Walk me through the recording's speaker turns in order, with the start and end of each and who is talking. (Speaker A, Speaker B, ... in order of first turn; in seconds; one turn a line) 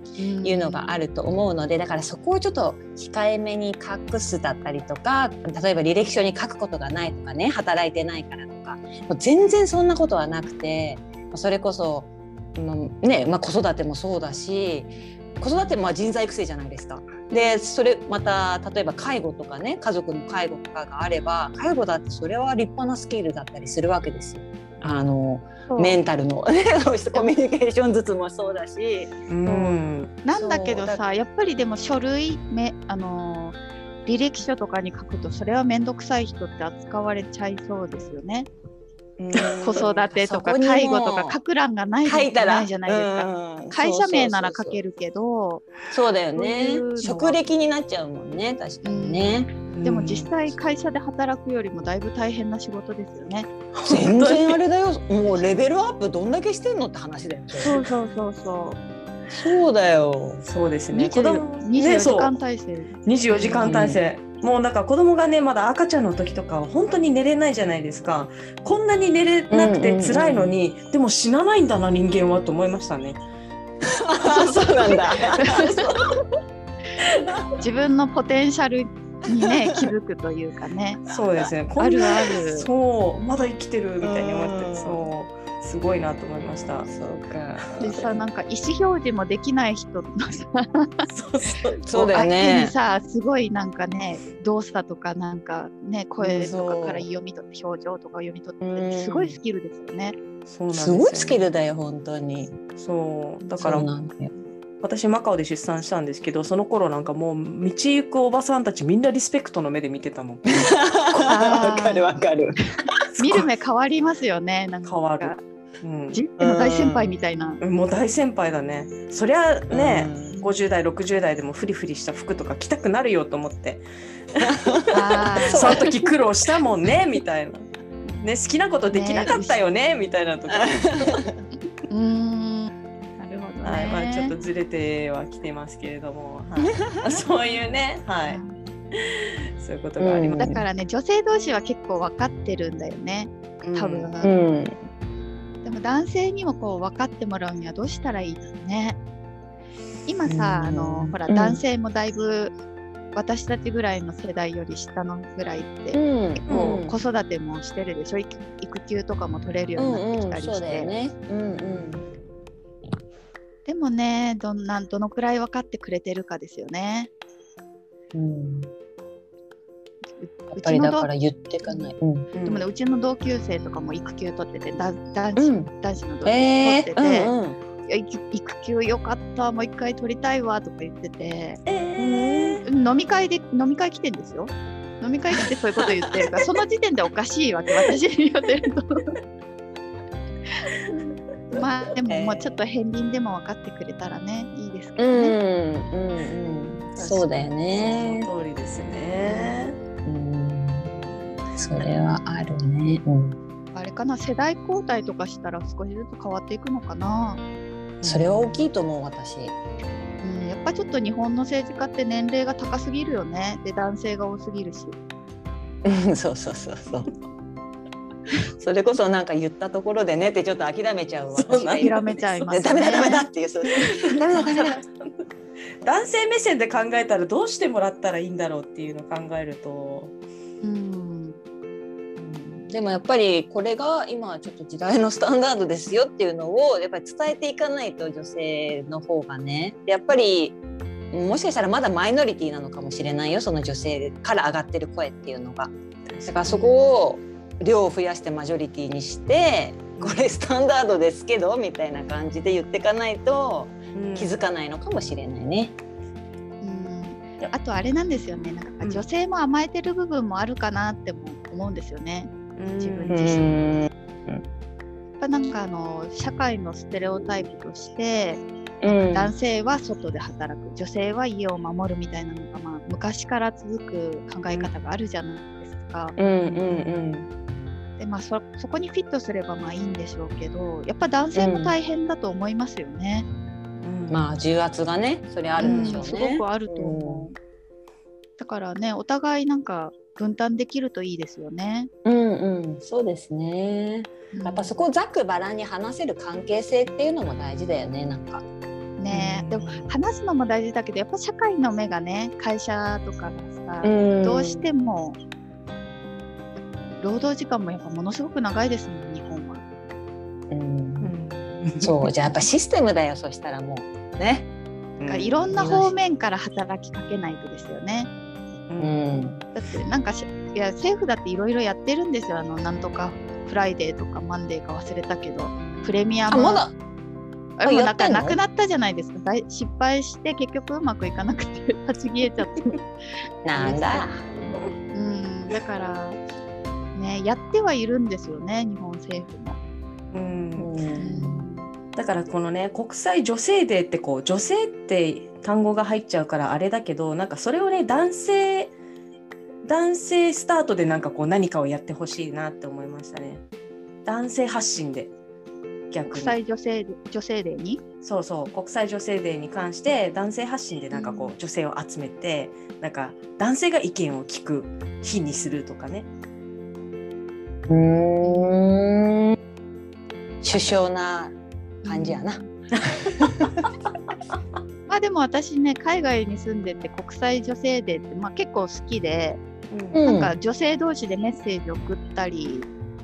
Speaker A: 0.2-0.9
Speaker B: 0.4-29.8
Speaker A: 25.7-26.0
Speaker C: 29.3-30.1
Speaker A: 30.2-38.5
Speaker B: 30.3-31.0
Speaker B: 39.2-41.4
Speaker C: 39.4-39.8
Speaker A: 39.6-45.7
Speaker B: 42.0-44.8
Speaker B: 45.9-49.5
Speaker A: 46.4-47.4
Speaker A: 48.8-53.5
Speaker C: 49.7-50.3
Speaker C: 53.7-54.6
Speaker B: 53.9-57.8
Speaker A: 57.6-58.8
Speaker C: 57.6-57.9
Speaker B: 59.3-60.4
Speaker C: 60.4-62.4
Speaker A: 60.9-63.8
Speaker C: 63.0-73.2
Speaker B: 63.4-64.0
Speaker B: 69.5-70.5
Speaker B: 73.9-75.7
Speaker A: 74.3-74.7
Speaker C: 74.8-76.2
Speaker A: 75.4-75.7
Speaker A: 77.6-81.0
Speaker C: 81.1-86.9
Speaker A: 81.8-82.7
Speaker B: 84.0-85.1
Speaker B: 86.9-88.1
Speaker C: 87.6-88.0
Speaker A: 87.8-91.1
Speaker C: 91.1-92.1
Speaker B: 91.9-92.7
Speaker A: 92.1-100.2
Speaker B: 96.2-97.1
Speaker B: 98.6-99.4
Speaker C: 100.5-101.5
Speaker B: 100.7-102.6
Speaker C: 102.8-103.9
Speaker B: 103.5-104.3
Speaker C: 104.8-110.8
Speaker B: 110.6-112.6
Speaker A: 111.3-112.1
Speaker C: 113.2-113.4
Speaker A: 113.2-115.4
Speaker C: 114.8-116.2
Speaker A: 116.1-117.6
Speaker B: 116.4-117.1
Speaker C: 117.6-131.2
Speaker B: 119.7-120.3
Speaker B: 124.4-124.8
Speaker A: 124.9-125.8
Speaker B: 125.5-126.1
Speaker A: 128.9-129.6
Speaker B: 130.5-131.4
Speaker A: 131.9-134.3
Speaker C: 133.6-138.4
Speaker A: 138.3-138.6
Speaker C: 138.9-140.6
Speaker B: 140.0-140.6
Speaker A: 140.4-144.3
Speaker C: 143.6-144.1
Speaker B: 144.2-144.8
Speaker A: 145.6-149.0
Speaker A: 150.1-152.5
Speaker B: 150.2-151.6
Speaker A: 153.1-160.9
Speaker B: 155.9-157.0
Speaker C: 156.5-156.8
Speaker B: 159.8-162.0
Speaker A: 163.7-167.1
Speaker B: 168.1-168.7
Speaker A: 170.2-171.1
Speaker B: 170.5-172.3
Speaker C: 172.3-172.7
Speaker A: 172.4-177.3
Speaker B: 175.4-175.7
Speaker B: 176.2-177.6
Speaker A: 177.9-181.6
Speaker C: 181.7-182.7
Speaker B: 182.0-182.6
Speaker A: 182.7-189.1
Speaker B: 185.4-186.4
Speaker A: 191.5-195.4
Speaker B: 192.1-192.6
Speaker B: 195.0-198.3
Speaker C: 196.9-199.8
Speaker B: 200.0-200.9
Speaker C: 200.9-201.4
Speaker B: 201.6-203.4
Speaker A: 203.7-207.4
Speaker C: 208.0-208.7
Speaker B: 208.0-209.6
Speaker A: 210.2-215.0
Speaker B: 215.8-217.1
Speaker B: 218.6-224.7
Speaker C: 221.3-222.5
Speaker A: 221.8-223.3
Speaker A: 224.1-224.8
Speaker C: 224.3-225.1
Speaker C: 225.8-230.1
Speaker A: 230.6-231.4
Speaker B: 232.2-240.6
Speaker B: 241.1-245.7
Speaker C: 246.1-246.4
Speaker B: 246.3-255.8
Speaker A: 246.5-246.9
Speaker C: 250.0-250.4
Speaker C: 253.9-254.4
Speaker A: 256.6-263.5
Speaker C: 262.6-263.2
Speaker B: 263.1-264.4
Speaker A: 265.2-276.8
Speaker B: 268.8-269.3
Speaker B: 276.2-277.3
Speaker A: 278.0-283.3
Speaker B: 281.4-281.8
Speaker C: 283.8-284.4
Speaker B: 284.1-287.3
Speaker A: 285.6-287.4
Speaker C: 285.6-286.0
Speaker A: 288.4-291.9
Speaker B: 292.1-298.4
Speaker A: 294.3-294.8
Speaker A: 299.0-305.2
Speaker C: 299.1-299.9
Speaker B: 303.8-304.7
Speaker A: 307.0-309.6
Speaker B: 310.5-311.1
Speaker C: 311.0-312.1
Speaker B: 311.8-314.5
Speaker C: 315.0-315.5
Speaker A: 315.1-318.1
Speaker B: 315.5-315.9
Speaker C: 318.7-319.3
Speaker B: 318.8-319.4
Speaker A: 319.5-326.6
Speaker B: 326.3-326.7
Speaker A: 327.6-332.8
Speaker B: 327.6-328.4
Speaker B: 333.4-334.2
Speaker A: 333.6-334.1
Speaker A: 334.9-336.2
Speaker A: 336.9-339.6
Speaker C: 340.1-340.8
Speaker B: 340.6-341.5
Speaker A: 341.0-341.7
Speaker C: 342.0-348.7
Speaker C: 349.6-353.4
Speaker C: 354.1-355.1
Speaker C: 355.9-356.4
Speaker A: 356.1-357.8
Speaker C: 358.0-366.1
Speaker A: 360.9-361.3
Speaker B: 367.7-369.4
Speaker A: 368.2-368.6
Speaker B: 370.4-371.4
Speaker A: 371.8-372.5
Speaker B: 371.9-372.4
Speaker B: 373.1-373.6
Speaker A: 374.9-379.4
Speaker C: 379.7-380.0
Speaker B: 379.9-380.4
Speaker A: 380.0-382.7